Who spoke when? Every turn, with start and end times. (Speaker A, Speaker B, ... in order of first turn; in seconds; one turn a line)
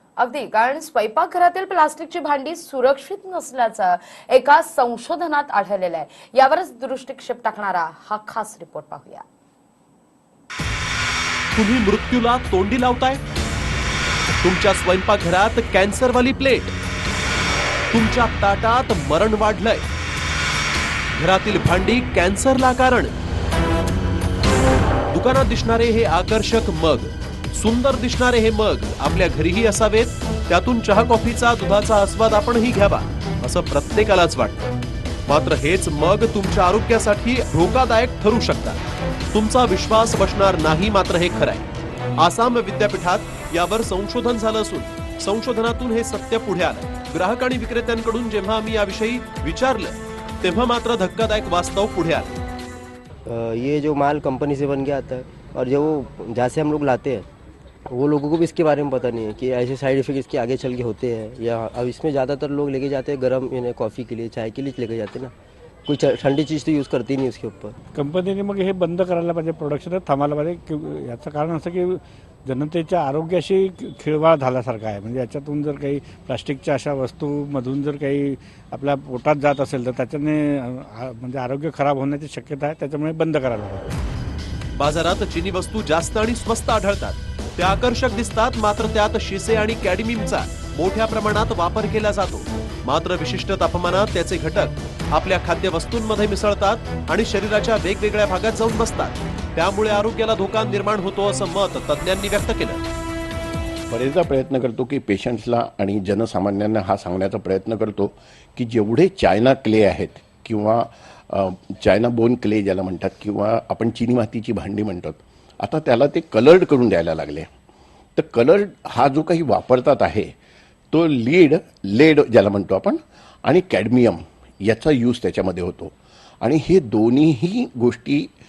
Speaker A: 0.2-9.2
Speaker B: 11.6-13.2
Speaker B: 14.4-16.7
Speaker B: 17.9-19.9
Speaker B: 21.1-23.1
Speaker B: 25.1-34.7
Speaker B: 35.3-38.8
Speaker B: 39.3-52.4
Speaker C: 53.2-57.3
Speaker C: 57.9-65.3
Speaker C: 65.8-67.7
Speaker D: 67.9-84.0
Speaker B: 84.7-102.8
Speaker E: 103.9-117.5
Speaker E: 118.2-120.3
Speaker E: 120.9-128.3